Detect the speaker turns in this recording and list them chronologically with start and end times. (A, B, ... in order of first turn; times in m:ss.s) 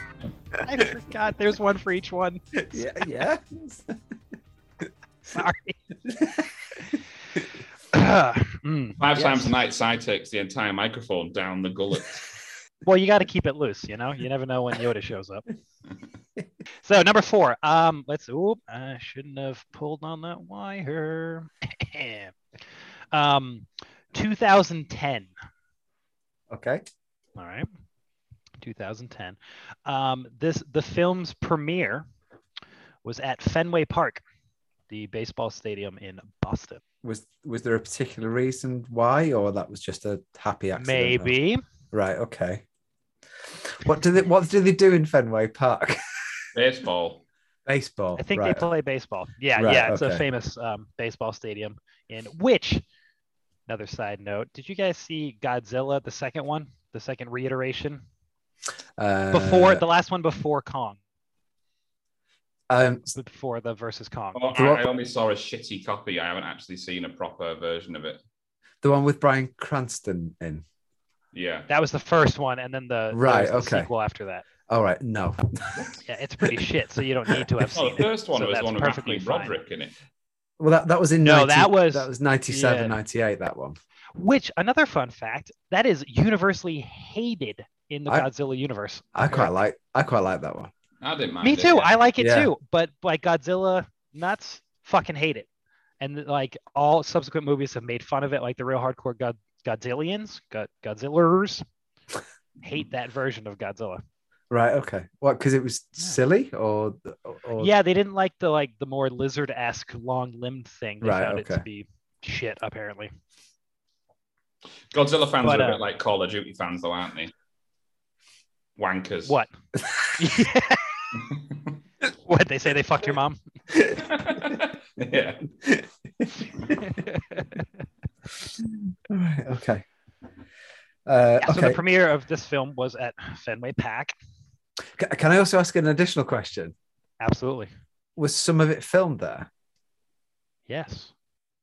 0:00.6-0:02.9 A
0:02.7-0:04.0 B
0:05.3-0:05.8 A
0:06.1-0:06.5 B
0:07.9-0:09.5 A
0:09.0-0:12.2 C
0:12.8-0:15.4 A
0:16.8-0:22.3 A
0:23.1-0:25.3 A
0:26.5-0:26.8 B
0:27.4-0:27.7 A
0:28.6-0:32.1 A
0:33.0-0:34.2 A
0:34.9-0:36.8 A
0:37.0-0:41.3 B
0:40.8-0:41.6 A
0:41.9-0:42.6 B
0:43.8-0:46.0 B
0:46.5-0:47.2 C
0:47.7-0:48.6 B
0:48.2-0:52.8 A
0:49.6-0:50.2 B
0:53.7-0:58.0 A
0:59.0-0:59.8 B
0:59.3-1:01.0 A
1:02.7-1:03.1 B
1:03.1-1:04.7 A
1:04.4-1:08.2 C
1:04.6-1:04.8 B
1:08.8-1:10.6 B
1:11.3-1:11.7 C
1:11.7-1:14.4 A
1:13.1-1:13.9 B
1:14.7-1:15.8 B
1:16.1-1:19.6 A
1:17.7-1:19.9 C
1:20.6-1:23.8 B
1:21.2-1:23.0 A
1:24.2-1:29.5 A
1:29.2-1:30.7 B
1:31.0-1:32.0 C
1:31.4-1:35.5 A
1:32.2-1:32.5 B
1:36.0-1:41.6 A
1:42.6-1:44.0 A
1:44.5-1:47.7 B
1:47.6-1:53.1 A
1:51.0-1:51.6 B
1:54.9-1:57.3 C
1:55.4-1:55.8 A
1:58.8-1:59.4 C
1:59.3-1:59.5 A
2:00.2-2:01.0 A
2:02.2-2:03.4 A
2:04.0-2:05.4 C
2:05.6-2:06.3 B
2:06.8-2:07.6 A
2:08.6-2:09.8 B
2:11.1-2:11.8 B
2:11.4-2:14.2 A
2:15.0-2:16.7 B
2:17.2-2:17.7 A
2:18.2-2:19.5 B
2:20.7-2:21.1 A